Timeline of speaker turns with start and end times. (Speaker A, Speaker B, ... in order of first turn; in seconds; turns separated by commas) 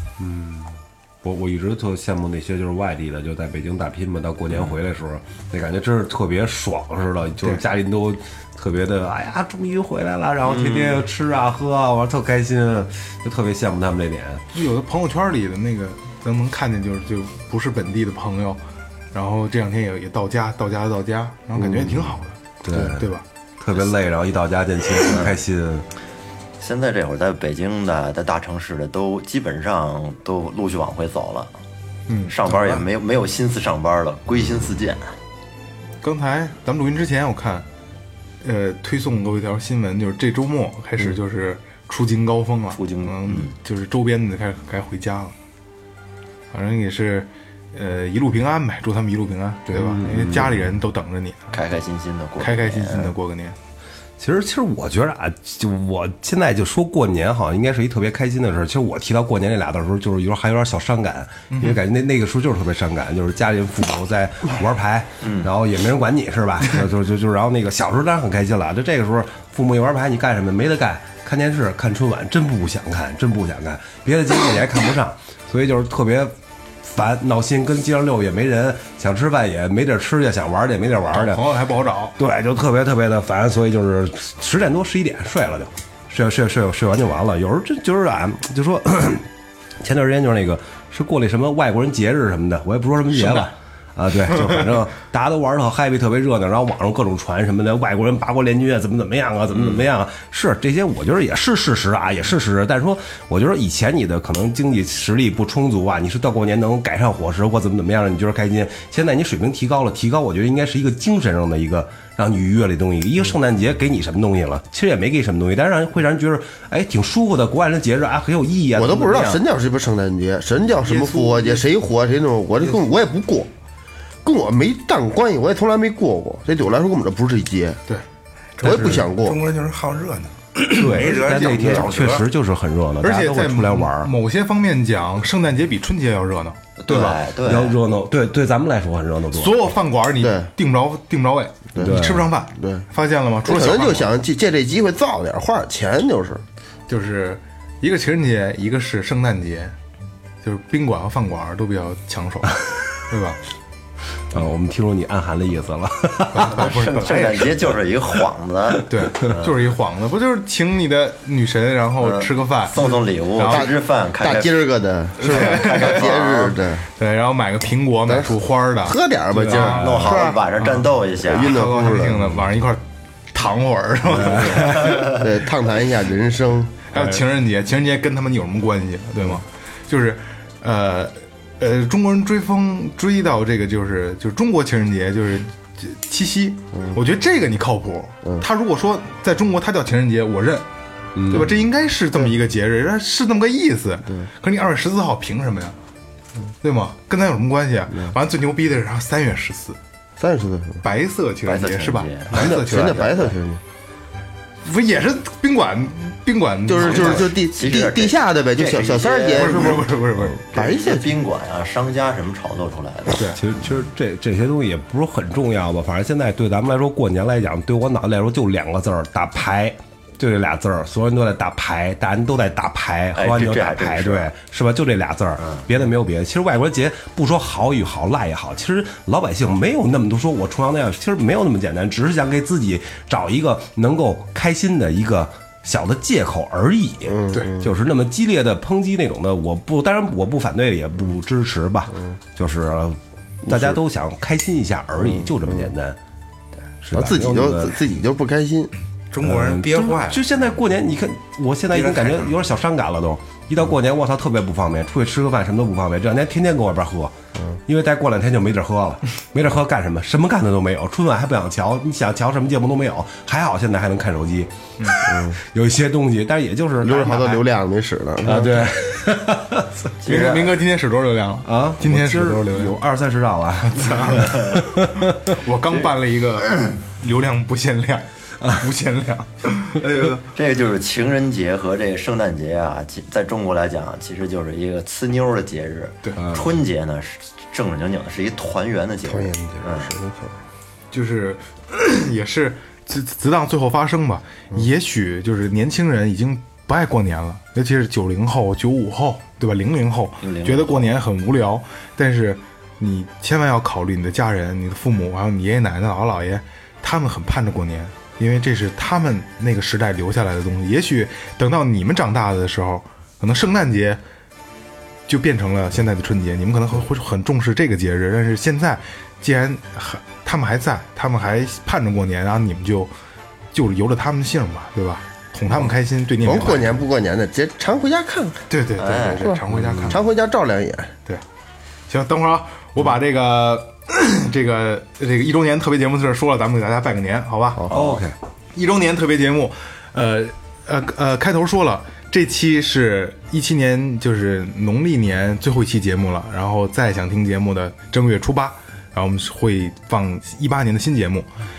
Speaker A: 0.2-14.4, Speaker B: 10.5-11.0, Speaker C: 14.5-18.6, Speaker C: 19.1-23.2, Speaker A: 22.6-25.9, Speaker B: 25.0-25.4, Speaker B: 26.6-31.6, Speaker C: 32.1-32.8, Speaker B: 32.3-35.1, Speaker C: 36.0-37.7, Speaker C: 38.4-45.4, Speaker B: 42.7-43.5, Speaker C: 46.5-51.5, Speaker A: 49.7-50.6, Speaker B: 51.5-53.1, Speaker C: 52.4-53.6, Speaker A: 54.2-81.4, Speaker C: 61.5-61.8, Speaker B: 65.2-65.5, Speaker C: 81.1-82.2, Speaker A: 82.2-89.3, Speaker A: 89.8-119.4, Speaker D: 118.8-123.5, Speaker C: 120.8-121.7, Speaker D: 124.2-127.8, Speaker E: 128.6-132.3, Speaker D: 128.6-129.4, Speaker A: 130.7-134.1, Speaker C: 131.4-131.8, Speaker C: 133.0-137.2, Speaker B: 136.8-137.8, Speaker A: 137.4-139.7, Speaker C: 139.3-144.2, Speaker D: 140.2-140.5, Speaker A: 141.8-142.3, Speaker D: 142.6-142.8, Speaker D: 143.5-146.4, Speaker C: 146.9-149.8, Speaker C: 150.4-153.4, Speaker A: 154.3-156.7, Speaker C: 156.3-157.4, Speaker B: 156.5-159.6, Speaker C: 158.9-163.7, Speaker B: 162.0-164.5, Speaker D: 163.4-166.8, Speaker C: 165.2-166.1, Speaker B: 165.2-166.7, Speaker C: 167.0-175.2, Speaker D: 168.1-168.3, Speaker D: 168.8-170.1, Speaker B: 169.5-171.6, Speaker A: 169.8-170.2, Speaker D: 171.2-172.3, Speaker B: 174.3-175.0, Speaker A: 174.4-174.6, Speaker D: 174.9-177.0, Speaker C: 176.9-190.7, Speaker A: 191.2-191.5, Speaker C: 191.3-195.8, Speaker C: 196.6-199.8, Speaker D: 200.2-200.8, Speaker C: 200.8-203.3, Speaker B: 201.5-202.3, Speaker D: 202.3-203.6, Speaker C: 204.7-207.3, Speaker D: 206.7-209.9, Speaker B: 206.8-209.8, Speaker C: 209.4-210.4, Speaker D: 210.5-211.2, Speaker B: 210.5-213.2, Speaker A: 213.3-246.0, Speaker B: 223.2-224.3, Speaker B: 225.4-225.7, Speaker D: 237.1-237.7, Speaker D: 243.4-243.8, Speaker D: 245.0-245.7, Speaker A: 246.8-247.8, Speaker D: 246.9-248.7, Speaker E: 249.1-250.2, Speaker A: 249.2-257.1, Speaker E: 251.7-252.3, Speaker A: 257.7-267.4, Speaker D: 265.1-265.4, Speaker D: 266.8-268.5, Speaker A: 268.2-269.7, Speaker B: 270.0-270.6, Speaker C: 270.1-272.8, Speaker A: 271.4-275.4, Speaker C: 273.6-274.5, Speaker C: 275.4-280.3, Speaker B: 280.3-289.9, Speaker A: 286.2-286.5, Speaker E: 289.1-290.0, Speaker D: 289.8-290.3, Speaker C: 290.9-314.0, Speaker B: 300.2-300.9, Speaker C: 315.1-322.9, Speaker C: 323.5-326.8, Speaker D: 326.2-328.4, Speaker C: 328.5-330.0, Speaker B: 328.8-329.3, Speaker D: 329.2-330.9, Speaker A: 329.5-330.0, Speaker C: 331.9-337.6, Speaker B: 337.7-338.0, Speaker A: 337.7-338.1, Speaker C: 338.6-351.3